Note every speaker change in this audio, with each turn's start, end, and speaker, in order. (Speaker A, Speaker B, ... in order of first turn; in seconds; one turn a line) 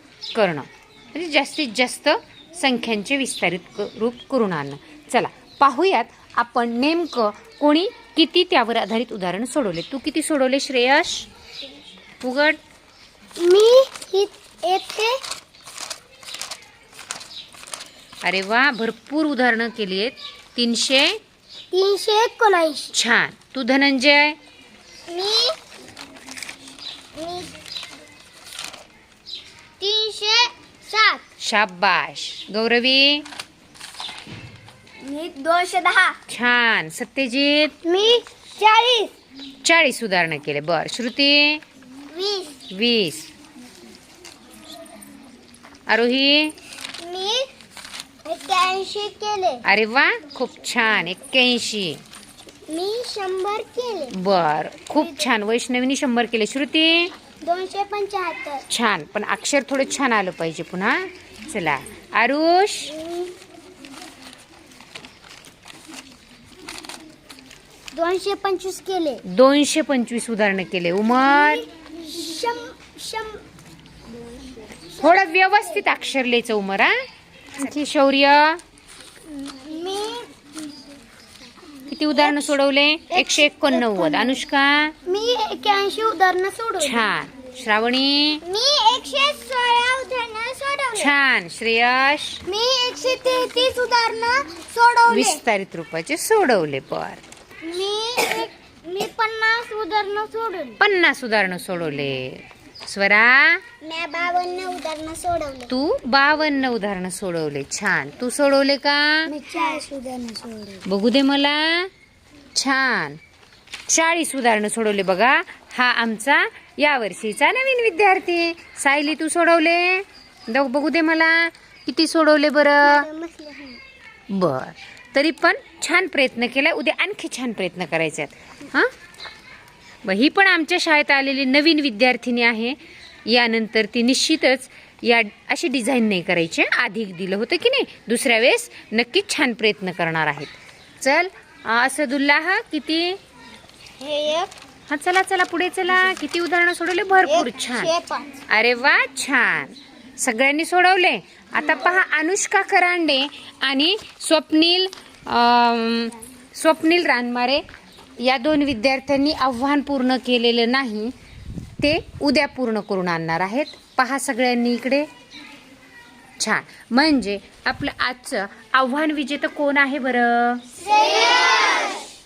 Speaker A: 0.3-11.3
Speaker A: 12.2-12.6
Speaker B: 13.4-15.1
Speaker A: 18.2-21.2
Speaker B: 21.7-22.9
Speaker A: 22.9-24.4
Speaker B: 25.1-25.6
Speaker B: 27.1-27.5
Speaker B: 29.8-31.2
Speaker A: 31.4-33.2
Speaker B: 35.0-36.2
Speaker A: 36.3-37.8
Speaker B: 37.8-39.1
Speaker A: 39.6-41.6
Speaker B: 42.1-42.6
Speaker A: 42.7-43.3
Speaker A: 45.9-46.5
Speaker B: 47.0-47.5
Speaker B: 48.2-49.6
Speaker A: 49.6-52.0
Speaker B: 52.7-54.1
Speaker A: 54.1-57.1
Speaker B: 54.9-55.3
Speaker B: 57.4-58.6
Speaker A: 58.7-62.9
Speaker B: 62.9-63.4
Speaker B: 67.9-69.2
Speaker A: 69.3-71.6
Speaker B: 71.2-73.4
Speaker B: 74.9-75.2
Speaker A: 75.0-77.0
Speaker A: 77.5-78.6
Speaker B: 79.3-80.3
Speaker A: 81.9-84.9
Speaker B: 82.2-82.5
Speaker B: 83.1-84.4
Speaker B: 85.0-87.0
Speaker A: 86.8-88.4
Speaker B: 88.4-91.1
Speaker A: 90.9-92.4
Speaker B: 92.5-95.4
Speaker A: 95.1-97.2
Speaker B: 97.6-100.8
Speaker A: 100.8-103.6
Speaker B: 103.8-105.7
Speaker A: 105.7-109.3
Speaker B: 109.3-110.8
Speaker A: 110.9-111.9
Speaker A: 112.5-113.2
Speaker A: 113.9-123.1
Speaker B: 122.8-123.8
Speaker A: 124.3-128.9
Speaker A: 130.0-143.2
Speaker B: 144.0-144.5
Speaker A: 144.9-147.9
Speaker B: 147.2-148.4
Speaker A: 148.5-157.6
Speaker A: 158.2-161.1
Speaker A: 161.8-165.1
Speaker A: 166.4-170.7
Speaker B: 170.8-172.0